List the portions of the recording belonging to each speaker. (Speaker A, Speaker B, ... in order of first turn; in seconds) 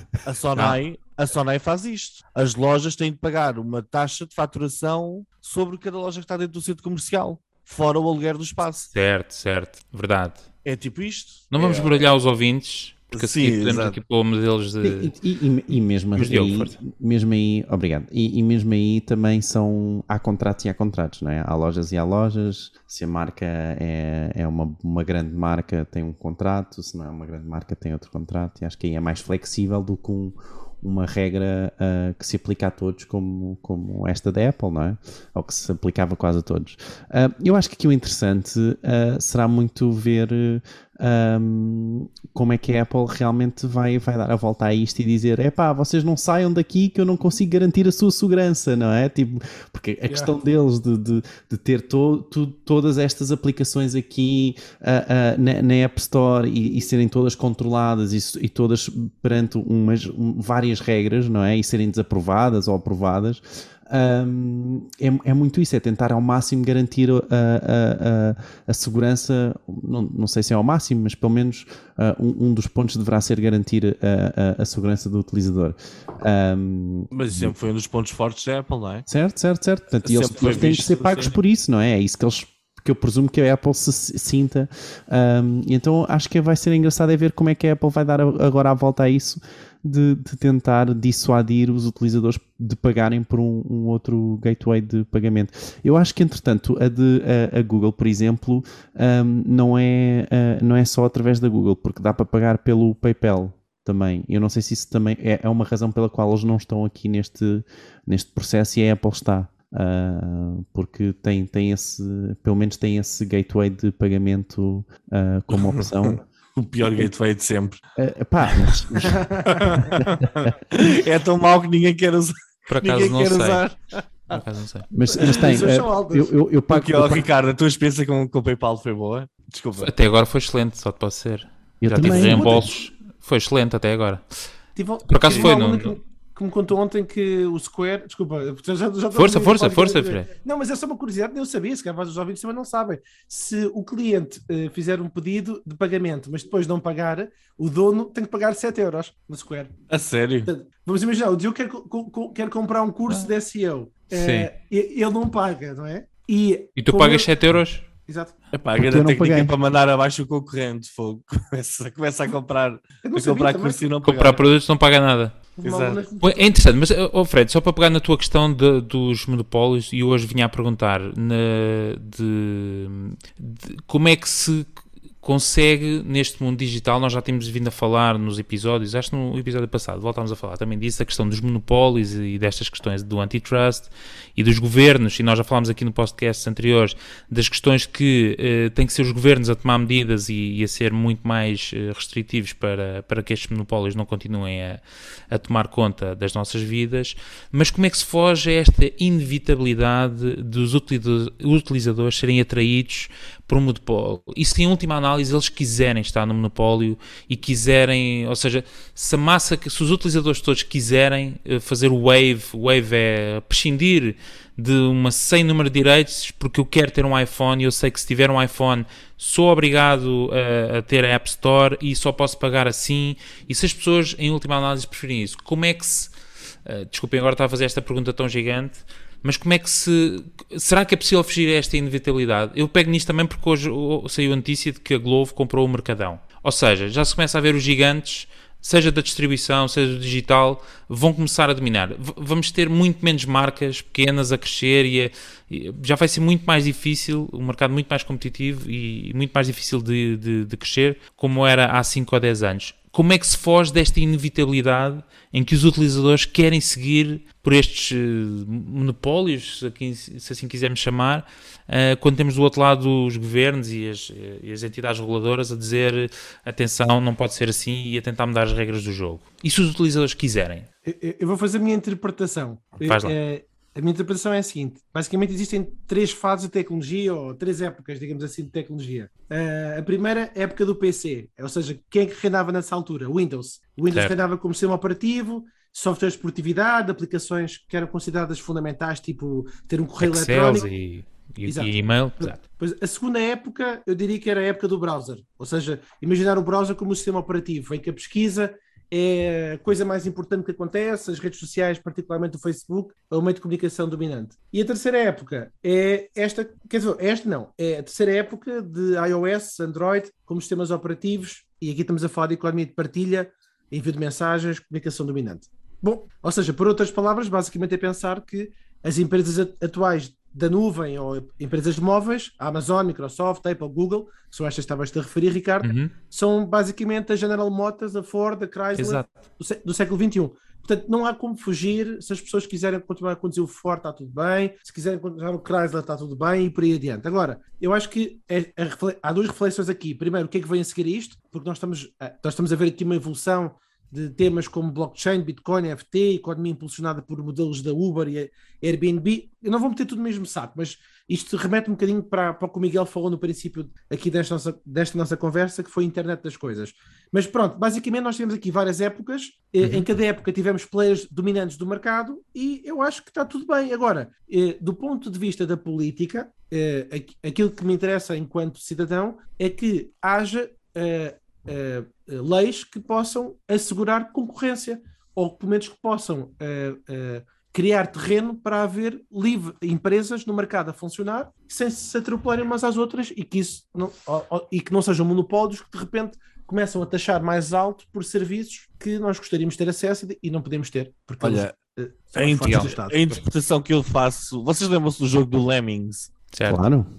Speaker A: 0.2-8.9, 10.6-12.1, 13.1-14.0, 77.1-79.0, 80.0-81.3, 115.5-117.8, 118.5-118.8, 119.5-124.4, 126.7-129.9, 149.9-150.5, 158.5-164.4, 165.6-166.0, 391.2-391.5, 392.1-396.1
Speaker B: 8.9-10.4, 11.5-15.1, 16.1-16.8, 122.7-123.6, 124.3-124.9, 129.8-134.2, 135.1-135.9, 139.1-140.3, 154.1-154.5, 156.8-157.8, 164.0-165.4, 166.2-226.1, 226.6-270.7, 272.8-273.1, 283.9-284.1, 290.0-292.4, 325.6-325.9, 328.7-329.1, 359.6-359.9, 396.3-396.6
Speaker C: 14.8-77.5, 79.1-116.2, 118.0-119.3, 120.0-120.5, 124.9-127.2, 131.8-132.7, 158.8-159.5, 396.5-396.9
Speaker D: 50.1-50.3, 119.0-119.7, 125.1-126.3, 132.0-132.7, 134.8-149.7, 150.4-157.3, 158.1-158.3, 163.0-163.8, 165.6-166.4, 270.9-290.7, 291.4-392.9